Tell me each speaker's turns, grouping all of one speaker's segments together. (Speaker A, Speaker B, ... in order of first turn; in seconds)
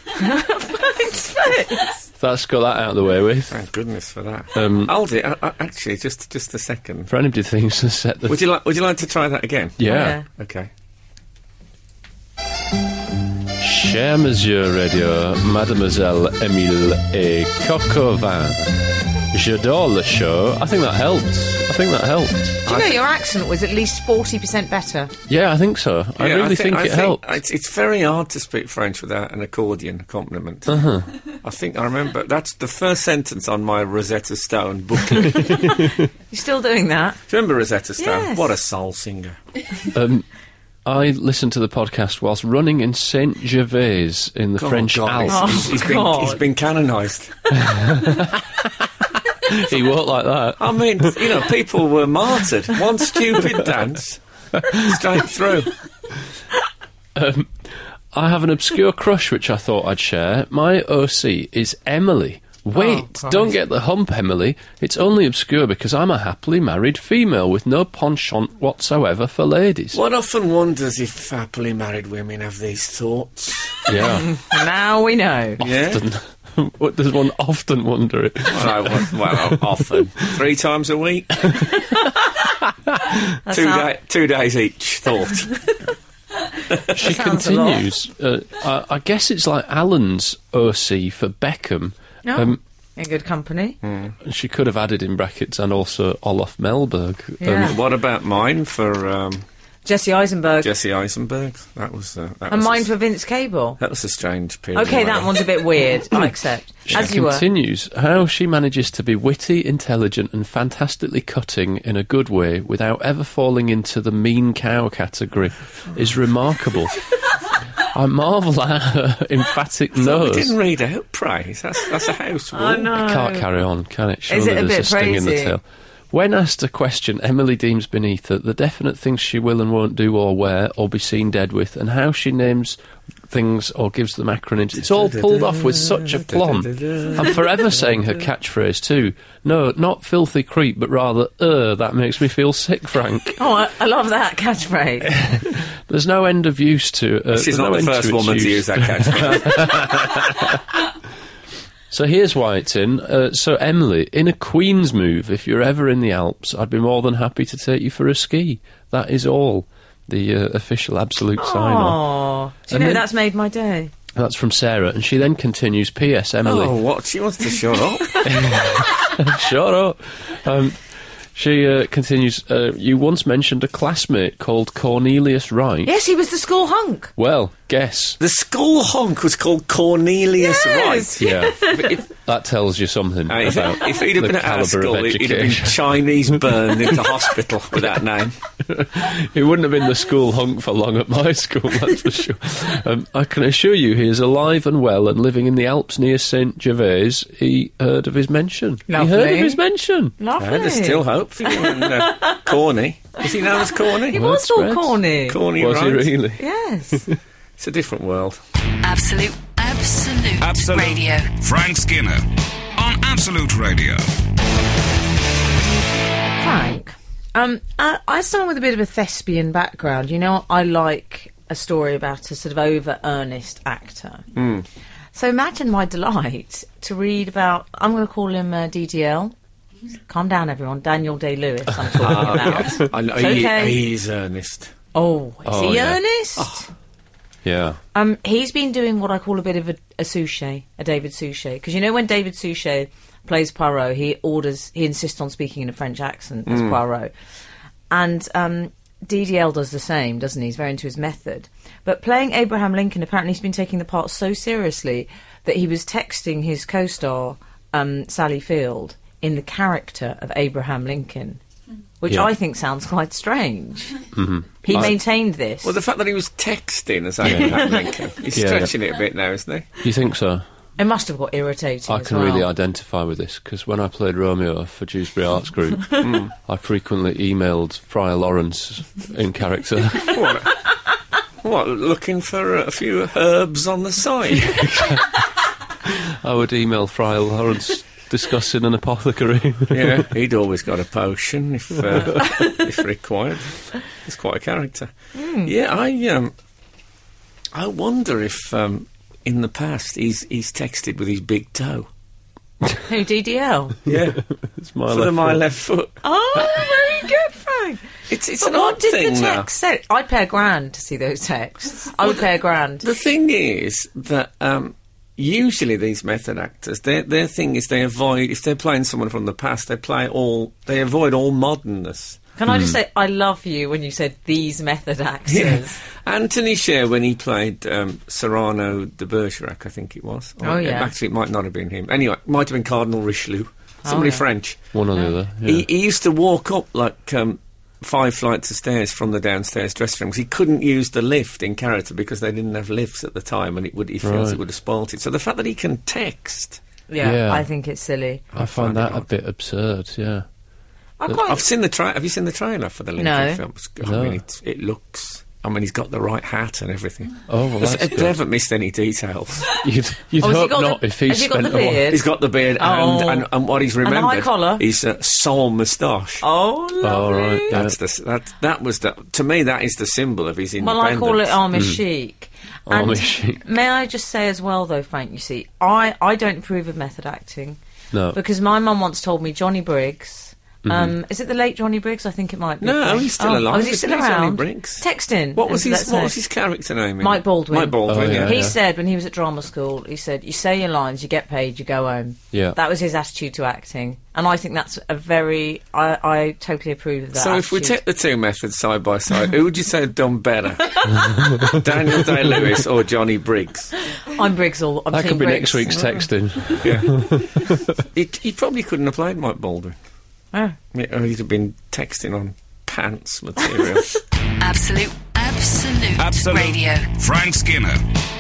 Speaker A: 0.2-2.0, 9.9-10.2, 22.6-25.1, 35.3-35.6, 36.3-37.2, 38.0-38.5, 45.3-46.4, 62.7-63.5, 74.1-75.6, 83.5-83.9, 86.9-87.9, 92.2-93.8, 97.4-97.8, 99.8-100.7, 102.5-103.8, 104.7-107.5, 122.5-123.5, 124.3-125.5, 143.4-145.2, 161.4-163.9, 175.8-177.1, 180.4-182.0, 198.9-199.6, 200.2-202.5, 203.9-205.4, 206.4-207.1, 216.4-224.2, 225.1-229.3, 230.1-233.8, 234.9-236.7, 237.9-247.1, 247.9-261.4, 262.0-264.0, 264.6-265.8, 270.8-272.5, 295.1-295.5, 302.9-303.8, 306.0-307.8, 308.4-312.9, 322.4-325.8, 330.4-330.9, 333.9-334.3, 346.9-348.2, 351.0-351.4, 353.0-353.4, 360.2-362.1, 362.6-363.3, 363.8-364.6, 366.2-367.6, 370.6-377.6, 378.1-386.2, 387.0-397.8, 404.1-406.0
Speaker B: 2.2-3.6, 4.5-4.9, 7.1-8.4, 9.8-10.2, 13.6-22.6, 25.3-27.2, 30.7-31.1, 35.5-35.9, 39.9-40.2, 40.9-45.7, 47.5-51.4, 54.7-55.0, 57.1-70.0, 73.9-74.3, 75.6-80.4, 86.9-92.6, 94.2-97.8, 106.9-117.1, 117.8-120.5, 122.9-132.8, 133.3-143.4, 145.1-150.6, 151.9-162.0, 162.7-163.0, 164.2-166.8, 168.2-175.9, 177.2-178.2, 181.2-185.9, 186.5-187.0, 188.7-200.1, 204.1-205.0, 205.6-206.4, 232.0-232.8, 235.5-236.0, 237.4-237.8, 264.1-265.0, 267.3-267.6, 268.3-268.7, 269.8-270.4, 271.9-280.2, 284.4-285.2, 285.9-290.1, 303.9-305.4, 322.5-322.8, 334.7-335.7, 344.0-344.4, 347.0-347.5, 348.4-350.2, 353.8-354.2, 357.3-358.2, 359.6-361.9, 366.8-367.8, 371.5-371.8, 372.7-373.4, 377.9-378.2, 380.6-380.9, 387.9-388.6, 392.3-392.6, 400.9-402.1, 404.9-407.7
Speaker C: 3.5-7.1, 8.3-10.7, 22.7-23.0, 26.2-30.8, 31.3-35.8, 37.3-39.4, 44.6-47.5, 50.6-55.7, 69.9-73.9, 75.6-76.0, 78.5-81.6, 83.5-85.6, 93.8-94.2, 97.6-99.4, 100.6-102.9, 103.8-105.5, 119.9-122.9, 134.8-138.2, 147.3-150.2, 166.4-168.4, 178.2-182.0, 183.3-188.4, 200.4-204.2, 205.3-206.1, 207.6-208.4, 224.3-224.7, 232.0-234.7, 236.4-236.6, 246.5-246.8, 265.6-269.8, 276.0-276.3, 280.1-280.5, 281.4-284.6, 289.7-294.9, 295.4-296.3, 297.5-301.9, 303.9-304.2, 304.9-306.0, 308.1-309.5, 312.8-322.2, 325.3-334.6, 335.4-346.6, 348.3-349.1, 351.1-359.6, 361.9-366.2, 367.5-371.4, 382.6-384.8, 385.4-388.5, 397.1-403.7, 406.6-407.2, 407.8-409.8, 410.7-414.0
Speaker D: 208.8-211.3, 414.4-416.9
Speaker E: 210.4-214.1, 416.0-417.8